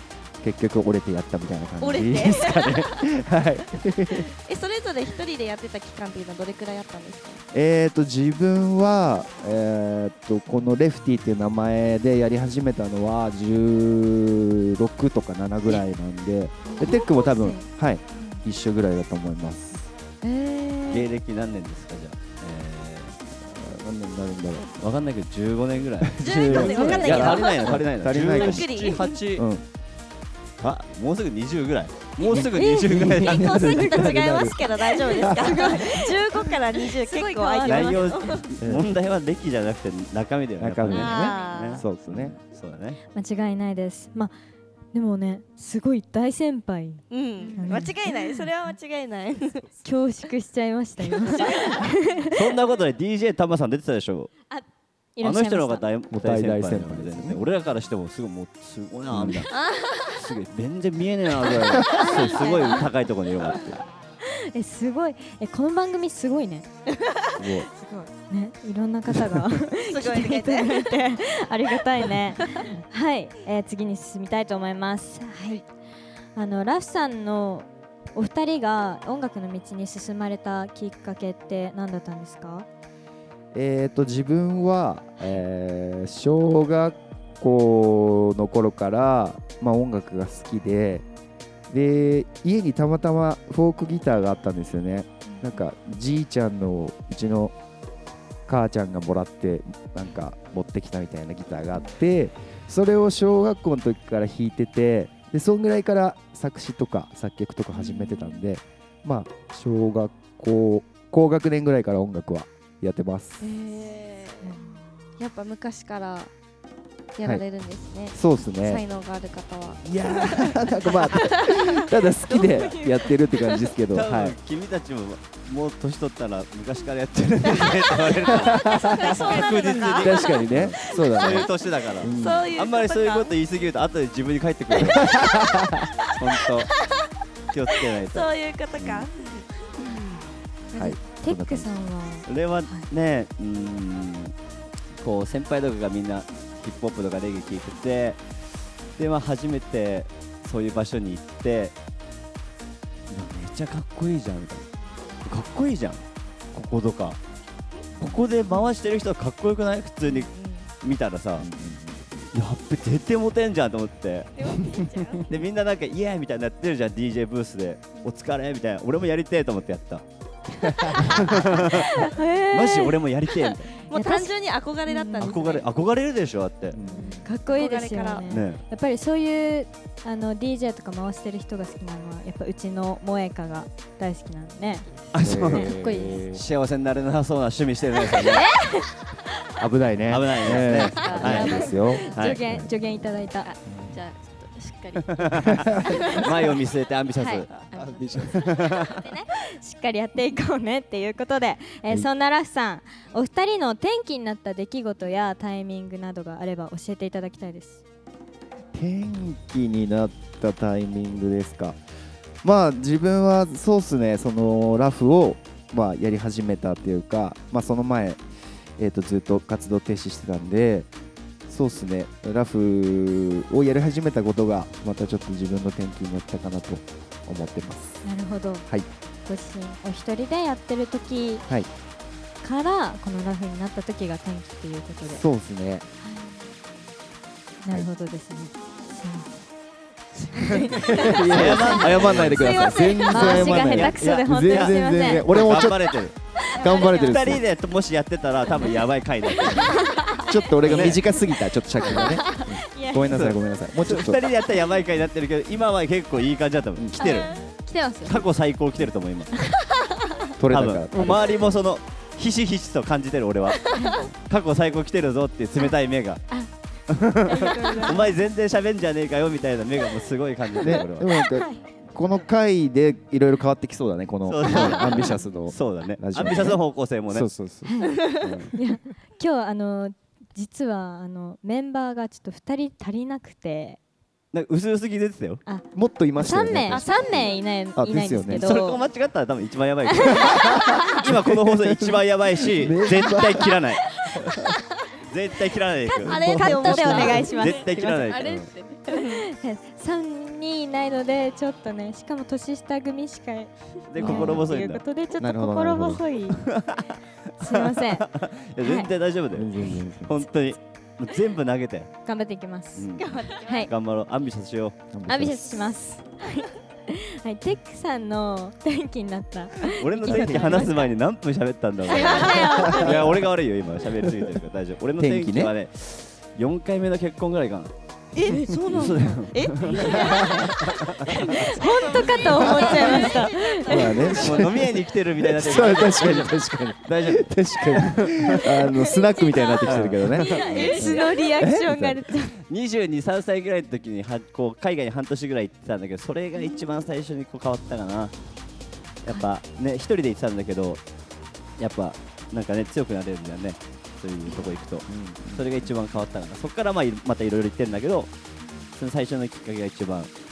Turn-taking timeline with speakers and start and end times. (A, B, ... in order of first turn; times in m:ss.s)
0:00.4-0:04.3 A
0:01.8-0:03.1 B
0:04.2-0:07.4 B
0:07.5-0:19.9 A
0:16.7-0:17.7 C
0:16.7-0:17.0 B
0:18.2-0:18.4 B
0:20.2-0:21.1 B
0:20.9-0:23.1 D
0:23.4-0:24.7 A
0:24.8-0:29.4 D
0:26.0-0:28.7 A
0:26.2-0:29.2 B
0:26.6-0:27.3 C
0:29.4-0:29.6 A
0:30.6-0:34.0 D
0:32.3-0:36.1 A
0:32.3-0:36.2 C
0:33.3-0:38.5 B
0:36.9-0:38.5 C
0:37.6-0:43.0 D
0:38.6-0:38.9 A
0:40.6-0:42.4 A
0:40.9-0:41.8 B
0:43.1-0:44.3 C
0:44.9-0:48.5 C
0:47.1-0:49.7 B
0:47.4-0:47.8 E
0:49.8-0:52.3 C
0:51.2-0:51.8 B
0:52.3-0:54.3 D
0:54.5-0:55.8 C
0:55.2-1:03.8 D
0:56.1-0:57.5 A
0:59.1-0:59.5 A
0:59.5-1:00.2 B
1:01.7-1:02.3 A
1:01.8-1:02.7 B
1:02.0-1:02.9 C
1:04.2-1:06.7 C
1:07.0-1:07.4 B
1:07.4-1:07.7 A
1:07.7-1:15.7 C
1:09.8-1:11.0 B
1:16.4-1:22.7 C
1:23.5-1:31.0 A
1:31.7-1:37.5 A
1:38.5-1:53.5 A
1:53.4-1:54.6 B
1:54.4-1:55.2 C
1:55.2-1:56.3 B
1:57.2-1:59.8 B
1:58.1-1:58.8 A
1:59.8-2:04.4 A
2:00.3-2:03.0 B
2:02.3-2:03.2 C
2:03.9-2:15.1 D
2:07.5-2:08.2 B
2:08.3-2:09.2 A
2:08.9-2:13.3 B
2:09.3-2:09.8 E
2:09.9-2:12.5 A
2:14.7-2:15.4 B
2:14.8-2:15.9 A
2:16.2-2:16.7 D
2:16.2-2:16.6 B
2:17.5-2:18.3 D
2:17.8-2:19.4 B
2:18.8-2:19.1 A
2:20.7-2:22.9 C
2:20.7-2:21.7 A
2:22.3-2:24.3 D
2:25.0-2:28.2 D
2:29.0-2:31.7 D
2:33.1-2:34.7 D
2:35.2-2:36.0 D
2:36.5-2:37.2 D
2:38.0-2:41.5 D
2:40.1-2:40.7 B
2:41.4-2:42.2 A
2:42.3-2:44.3 D
2:44.4-2:45.4 B
2:45.3-2:50.0 D
2:50.7-2:51.4 A
2:50.9-2:52.0 D
2:51.6-2:53.0 C
2:52.5-2:53.7 D
2:53.3-2:55.7 B
2:53.9-2:54.3 C
2:54.9-2:55.4 C
2:55.2-2:56.8 D
2:56.7-2:57.3 A
2:56.9-2:58.3 B
2:56.9-3:04.9 C
2:58.3-2:58.6 D
3:05.1-3:08.5 D
3:05.2-3:06.4 A
3:05.5-3:06.2 C
3:08.0-3:09.0 C
3:09.6-3:12.7 A
3:10.1-3:12.4 D
3:11.0-3:11.5 B
3:11.1-3:13.5 C
3:13.7-3:14.0 A
3:14.0-3:16.2 E
3:15.0-3:17.5 D
3:15.7-3:16.4 B
3:17.2-3:17.5 C
3:17.7-3:18.7 E
3:18.0-3:18.5 A
3:18.2-3:19.0 D
3:18.9-3:27.8 C
3:28.7-3:31.8 A
3:32.4-3:38.2 A
3:38.8-3:40.9 A
3:41.5-3:48.0 A
3:48.0-3:48.6 C
3:49.3-3:51.5 C
3:52.4-3:55.2 C
3:55.0-3:55.8 A
3:56.0-3:56.3 C
3:57.6-3:59.4 C
4:00.3-4:02.0 C
4:00.5-4:06.2 D
4:00.5-4:07.4 A
4:01.1-4:03.6 B
4:03.1-4:05.2 C
4:06.5-4:07.2 C
4:06.7-4:09.8 D
4:09.6-4:10.9 C
4:10.2-4:14.2 A
4:10.6-4:11.2 D
4:11.8-4:13.2 C
4:13.1-4:17.3 D
4:16.8-4:17.3 A
4:17.0-4:18.3 C
4:18.0-4:19.3 D
4:20.4-4:21.5 A
4:20.5-4:26.3 D
4:23.7-4:24.0 C
4:26.9-4:31.1 D
4:27.1-4:28.2 C
4:30.6-4:38.5 A
4:31.4-4:31.6 C
4:34.3-4:37.3 D
4:37.6-4:38.0 C
4:38.5-4:43.8 C
4:44.3-4:45.4 D
4:45.5-4:48.8 C
4:45.7-4:48.6 A
4:46.7-4:47.0 D
4:47.0-4:47.3 B
4:48.3-4:53.8 D
4:49.9-4:51.0 C
4:50.3-4:52.0 A
4:52.5-4:53.6 A
4:55.0-4:58.5 D
4:55.9-4:58.2 C
4:56.0-4:57.3 A
4:56.0-4:57.4 B
4:57.3-4:58.9 E
4:58.9-5:06.4 C
4:58.9-4:59.2 B
5:03.9-5:04.8 D
5:04.0-5:04.5 A
5:05.2-5:06.0 A
5:06.4-5:06.9 D
5:07.4-5:08.1 C
5:07.5-5:09.5 D
5:08.6-5:08.9 C
5:09.3-5:10.2 A
5:10.1-5:11.9 D
5:12.1-5:13.7 C
5:12.8-5:14.8 D
5:13.0-5:13.7 B
5:14.9-5:15.7 A
5:15.1-5:20.9 C
5:19.7-5:27.7 D
5:20.1-5:20.7 A
5:21.9-5:23.0 B
5:21.9-5:23.0 C
5:22.6-5:23.2 A
5:24.0-5:24.3 A
5:25.0-5:25.5 A
5:28.2-5:34.5 B
5:28.7-5:31.1 D
5:30.0-5:30.5 A
5:31.3-5:34.2 C
5:32.4-5:32.9 A
5:33.7-5:42.0 A
5:33.9-5:38.6 D
5:38.6-5:39.6 C
5:39.6-5:40.7 D
5:40.2-5:42.4 C
5:40.2-5:41.2 B
5:42.5-5:48.1 D
5:49.0-5:50.8 D
5:51.6-5:58.1 D
5:54.9-5:55.5 A
5:58.8-6:00.1 D